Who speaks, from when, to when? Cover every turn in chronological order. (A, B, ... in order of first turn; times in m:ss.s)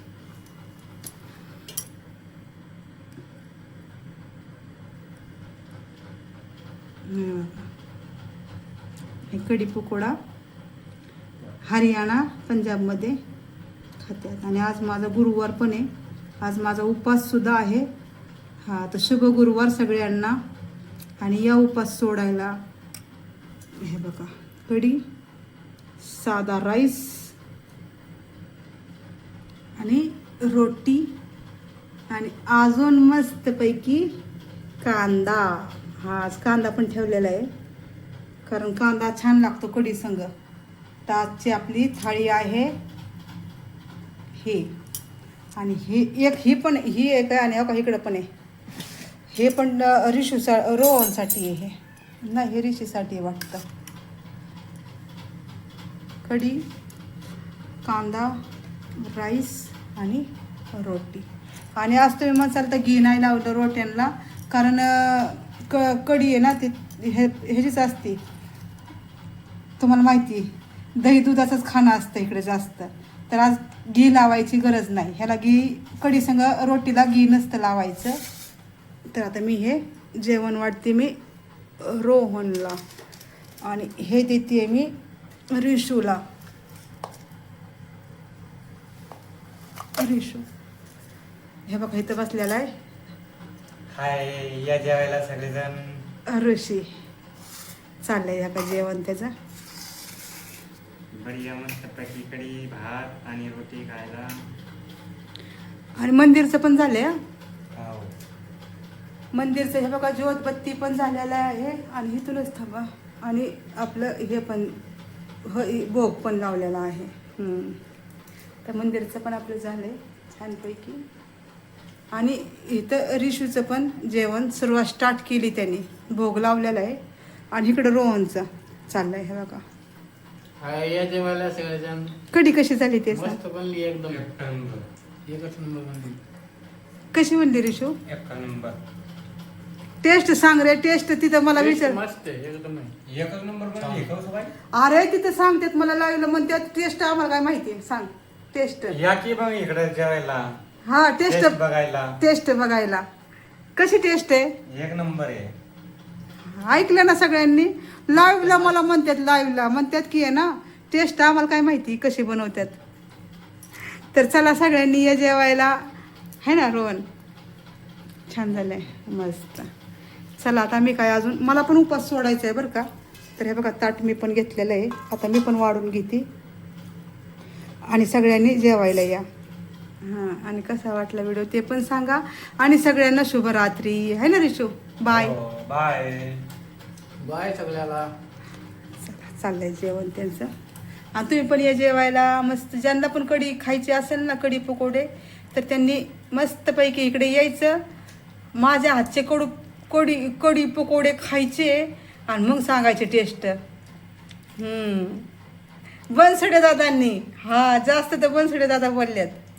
0:07.0-0:07.7 A
0:09.3-0:10.2 A
0:11.6-0:13.2 A
0:14.0-0:17.9 A
0:18.6-0:20.4 A
0:21.2-0:22.6 A
0:23.8-0:25.0 A
0:26.0-0:27.3 A
0:29.8-0:31.1 A
0:32.1-0:34.1 A
0:34.8-0:37.5 A
0:38.4-0:40.3 A
0:41.0-0:42.8 A
0:44.3-0:44.7 A
0:45.5-0:48.3 A
0:49.3-0:53.6 A
0:56.2-0:56.6 A
0:57.8-0:58.4 A
0:59.0-1:08.2 A
1:09.8-1:18.2 A
1:19.1-1:21.2 A
1:21.8-1:22.8 A
1:23.6-1:24.9 A
1:25.5-1:26.2 A
1:30.0-1:30.5 A
1:31.7-1:32.7 A
1:33.9-1:36.0 B
1:36.3-1:36.9 A
1:38.0-1:39.3 A
1:41.1-1:44.3 B
1:46.0-1:47.2 A
1:47.7-1:48.1 B
1:49.3-1:54.8 A
1:55.4-1:57.8 A
1:58.6-2:01.0 A
2:02.1-2:07.0 A
2:07.5-2:09.6 A
2:10.6-2:12.2 C
2:12.3-2:13.4 A
2:13.1-2:14.2 C
2:14.1-2:14.8 B
2:15.2-2:16.2 C
2:17.1-2:18.0 A
2:18.1-2:18.8 B
2:20.0-2:22.0 A
2:21.5-2:22.9 C
2:23.0-2:24.5 B
2:24.7-2:29.0 A
2:28.9-2:30.5 B
2:30.8-2:31.6 A
2:31.3-2:32.2 B
2:32.2-2:33.0 A
2:33.8-2:34.5 A
2:34.7-2:35.5 B
2:36.4-2:42.8 A
2:43.9-2:47.0 A
2:48.3-2:49.7 A
2:50.4-2:56.3 A
2:57.8-2:59.2 A
3:00.0-3:05.4 A
3:05.1-3:06.4 B
3:07.2-3:08.1 C
3:09.0-3:10.5 A
3:11.1-3:17.8 A
3:18.5-3:23.6 A
3:24.6-3:25.3 A
3:26.1-3:29.4 A